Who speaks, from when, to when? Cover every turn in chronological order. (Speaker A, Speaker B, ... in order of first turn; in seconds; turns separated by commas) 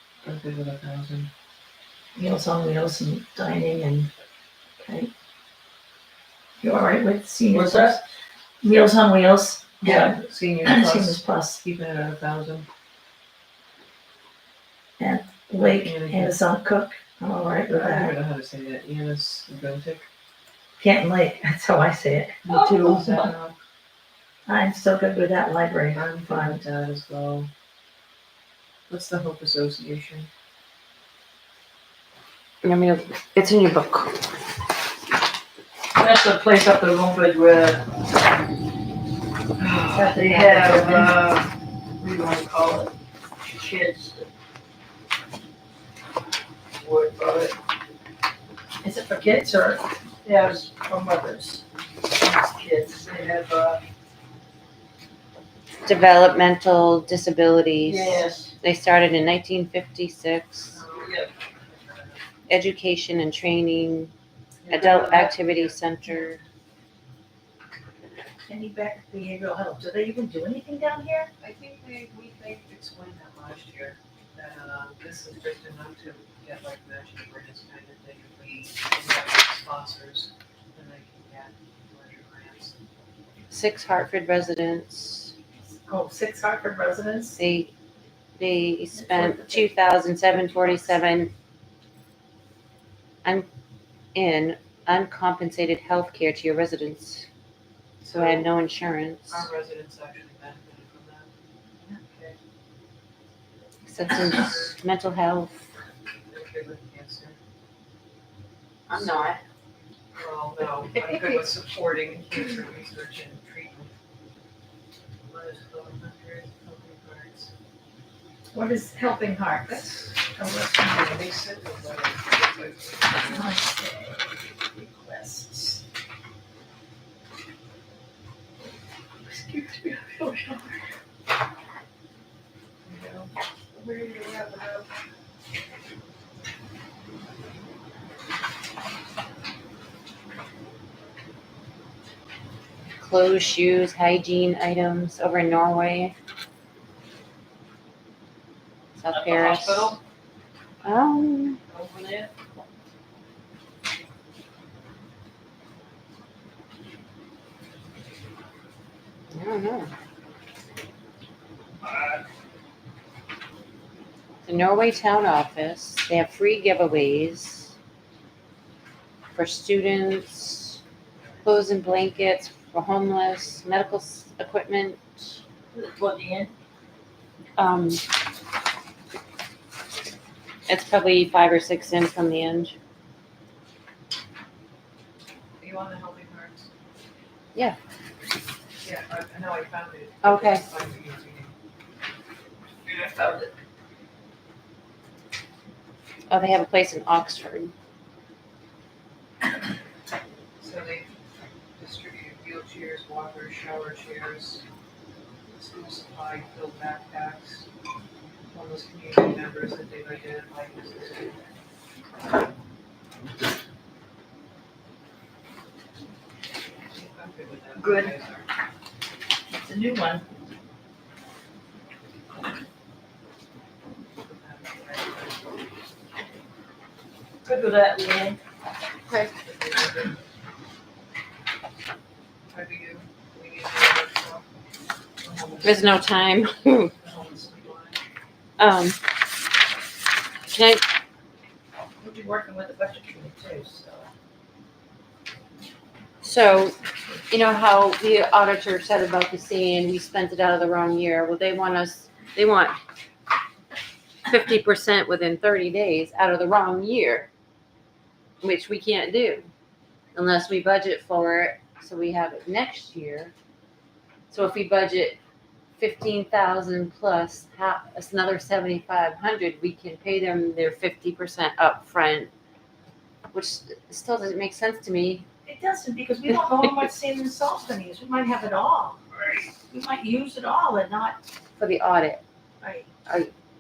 Speaker A: 0.2-1.3, Speaker B: 2.1-4.1, Speaker B: 4.8-5.1, Speaker B: 6.6-8.0, Speaker C: 7.5-8.0, Speaker B: 8.6-11.6, Speaker A: 9.8-12.7, Speaker B: 15.0-18.1, Speaker A: 15.8-16.4, Speaker A: 17.7-20.1, Speaker B: 20.8-22.4, Speaker A: 22.4-23.6, Speaker C: 22.5-23.3, Speaker B: 24.4-26.6, Speaker A: 25.9-27.5, Speaker A: 28.9-30.3, Speaker D: 32.6-34.3, Speaker C: 35.9-37.8, Speaker A: 39.6-40.0, Speaker B: 39.9-41.2, Speaker C: 40.1-44.2, Speaker C: 46.8-47.5, Speaker B: 48.8-49.9, Speaker C: 50.2-51.6, Speaker C: 52.1-53.8, Speaker D: 55.8-60.8, Speaker C: 57.8-58.5, Speaker A: 60.7-62.2, Speaker C: 60.9-61.3, Speaker D: 62.5-64.1, Speaker D: 64.7-66.4, Speaker A: 64.7-66.3, Speaker B: 68.5-71.3, Speaker A: 71.4-82.8, Speaker D: 83.5-85.3, Speaker B: 85.9-87.4, Speaker D: 87.3-87.7, Speaker D: 88.4-91.3, Speaker B: 89.0-89.7, Speaker D: 94.1-97.3, Speaker A: 98.0-98.5, Speaker D: 98.1-99.5, Speaker A: 99.3-101.3, Speaker A: 101.9-102.4, Speaker D: 103.8-105.7, Speaker A: 104.0-104.8, Speaker A: 106.3-107.3, Speaker D: 108.9-109.4, Speaker A: 108.9-109.4, Speaker A: 110.1-113.9, Speaker A: 115.3-117.5, Speaker B: 118.5-121.0, Speaker A: 119.8-120.2, Speaker A: 120.7-123.5, Speaker B: 123.3-125.8, Speaker A: 132.9-133.3, Speaker C: 133.7-134.8, Speaker D: 143.0-146.1, Speaker D: 149.0-150.0, Speaker C: 149.1-150.0, Speaker D: 150.8-151.6, Speaker C: 151.7-152.3, Speaker D: 159.3-159.9, Speaker D: 164.4-167.7, Speaker D: 169.3-170.8, Speaker D: 171.4-175.4, Speaker C: 175.7-176.5, Speaker D: 177.6-178.0, Speaker D: 180.7-182.7, Speaker A: 185.6-186.7, Speaker A: 188.8-191.5, Speaker D: 190.2-190.6, Speaker C: 192.9-193.5, Speaker D: 196.3-197.7, Speaker A: 200.6-201.1, Speaker A: 201.8-204.6, Speaker A: 205.5-207.7, Speaker A: 208.5-211.4, Speaker A: 216.9-218.5, Speaker C: 217.7-218.1, Speaker B: 219.5-220.2, Speaker A: 224.2-225.4, Speaker C: 227.4-228.4, Speaker D: 229.1-229.3, Speaker A: 229.4-230.1, Speaker A: 232.5-234.5, Speaker A: 235.2-236.1, Speaker D: 235.6-236.9, Speaker A: 237.0-238.0, Speaker D: 238.6-239.0, Speaker D: 240.5-240.8, Speaker B: 242.0-244.1, Speaker D: 246.2-246.8, Speaker D: 247.3-252.8, Speaker D: 254.3-257.3, Speaker D: 258.4-259.5, Speaker D: 260.1-263.3, Speaker D: 264.3-265.2, Speaker D: 265.8-272.3, Speaker D: 273.3-275.2, Speaker B: 275.4-279.0, Speaker C: 279.1-279.5, Speaker B: 279.7-281.2, Speaker D: 281.6-282.2, Speaker B: 282.6-282.9, Speaker D: 283.1-283.3